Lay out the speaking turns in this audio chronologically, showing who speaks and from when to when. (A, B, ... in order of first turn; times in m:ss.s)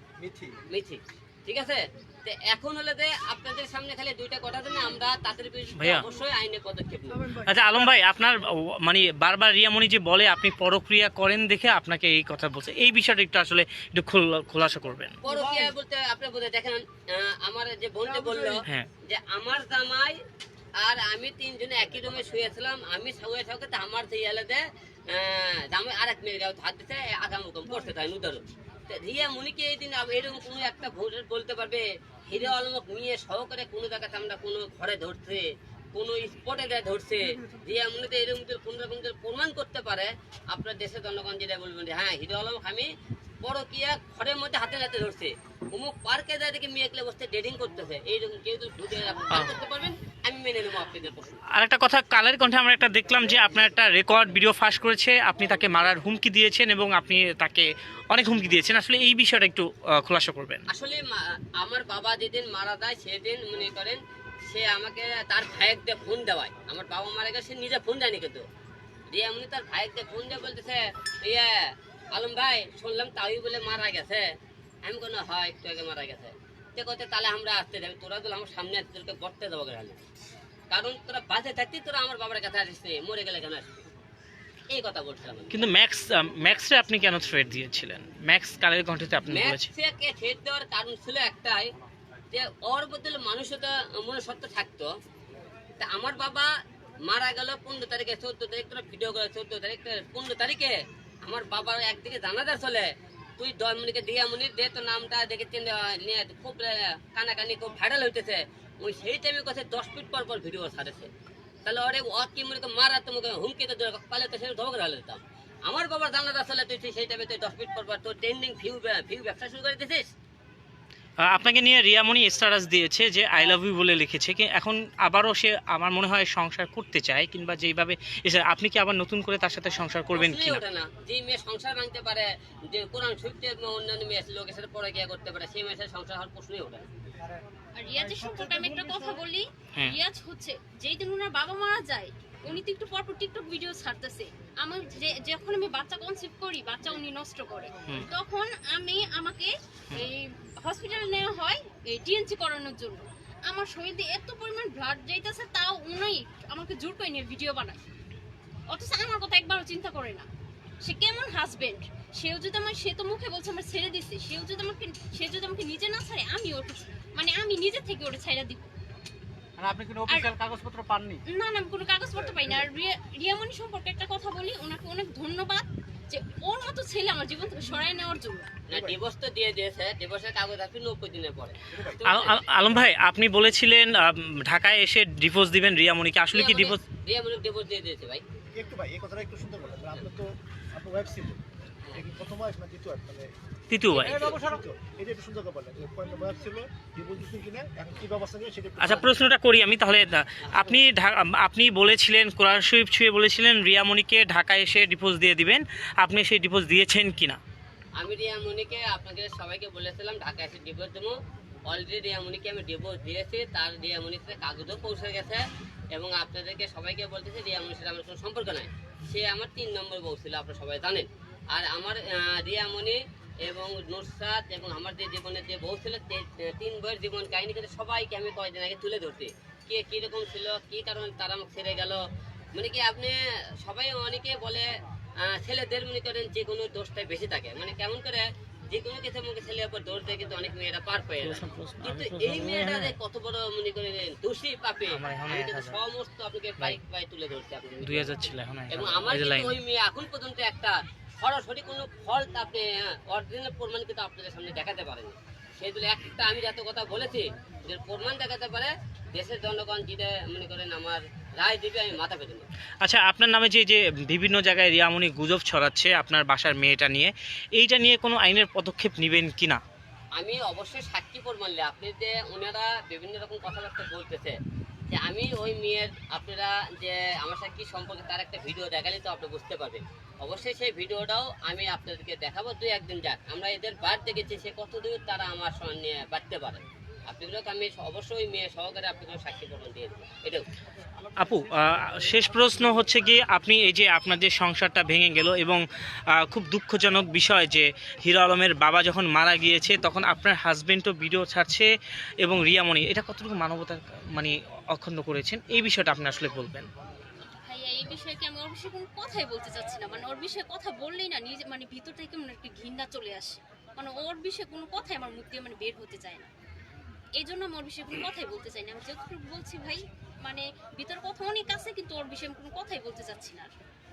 0:00.7-0:07.5 A
0:05.8-0:06.0 B
0:07.4-0:15.2 B
0:15.2-0:20.2 A
0:20.8-0:42.9 A
0:43.4-0:51.4 A
0:51.5-1:00.6 B
1:00.7-1:08.4 A
1:09.1-1:11.6 A
1:12.1-1:14.2 A
1:14.8-1:20.0 A
1:20.7-1:23.8 A
1:24.7-1:25.5 A
1:25.5-1:29.7 B
1:29.3-1:31.7 A
1:32.3-1:34.9 A
1:35.8-1:36.5 A
1:37.0-1:51.1 A
1:51.6-2:00.1 A
2:01.2-2:10.6 B
2:10.1-2:16.8 A
2:17.2-2:19.2 C
2:17.8-2:37.8 D
2:38.7-2:40.3 D
2:40.8-2:48.7 D
2:49.6-2:51.2 C
2:50.1-2:50.4 D
2:51.3-2:58.5 D
2:52.1-2:52.6 E
2:58.7-3:02.4 A
2:58.7-2:59.0 E
3:01.7-3:02.0 E
3:02.0-3:06.8 B
3:06.3-3:08.2 A
3:08.5-3:11.4 E
3:11.9-3:13.3 E
3:13.7-3:14.2 B
3:13.9-3:14.4 A
3:14.0-3:19.2 E
3:18.8-3:27.4 B
3:20.4-3:20.7 A
3:28.0-3:31.2 A
3:31.7-3:35.4 A
3:35.9-3:52.0 A
3:52.5-3:54.7 A
3:55.2-4:22.4 A
4:01.2-4:02.9 B
4:04.9-4:05.8 B
4:07.8-4:09.6 B
4:22.8-4:29.6 B
4:30.2-4:34.4 A
4:34.9-4:50.4 A
4:51.2-4:55.6 B
4:56.1-5:01.7 B
5:02.2-5:06.7 B
5:07.4-5:16.3 D
5:17.2-5:23.5 D